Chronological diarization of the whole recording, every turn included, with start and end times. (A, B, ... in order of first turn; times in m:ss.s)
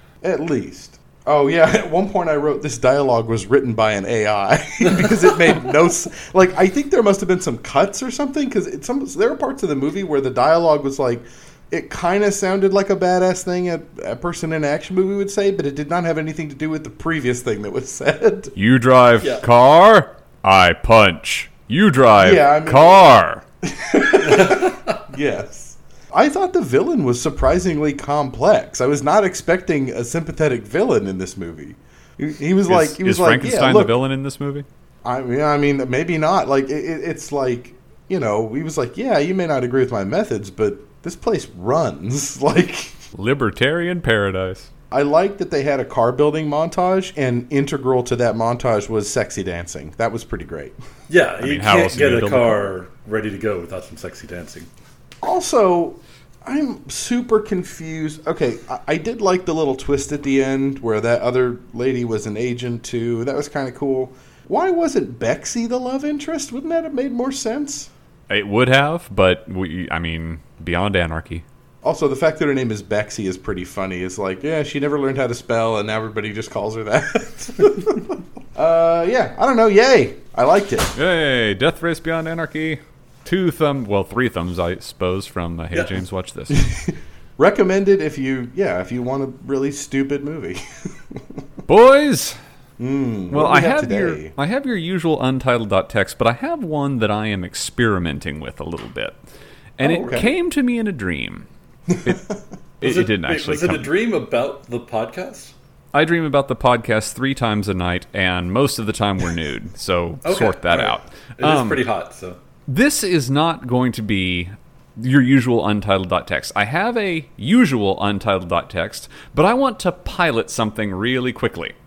0:00.2-0:18.5 A
0:18.6-0:23.4 B
0:22.2-0:23.1 A
0:23.6-0:34.0 A
0:24.2-0:25.0 C
0:32.7-0:34.6 B
0:35.0-0:43.0 A
0:43.1-0:44.7 B
0:44.9-0:50.7 A
0:51.1-0:54.7 C
0:51.4-0:52.7 B
0:55.2-1:07.9 A
1:08.3-1:11.4 B
1:11.8-1:20.9 A
1:20.9-1:26.7 B
1:26.5-1:31.4 A
1:31.7-1:32.4 B
1:32.8-1:34.3 A
1:33.3-1:39.2 B
1:39.8-1:41.4 B
1:39.8-1:40.3 A
1:41.9-1:42.2 A
1:42.8-1:43.9 B
1:42.8-1:45.5 C
1:45.9-1:51.8 B
1:50.2-1:52.4 C
1:52.7-2:01.7 B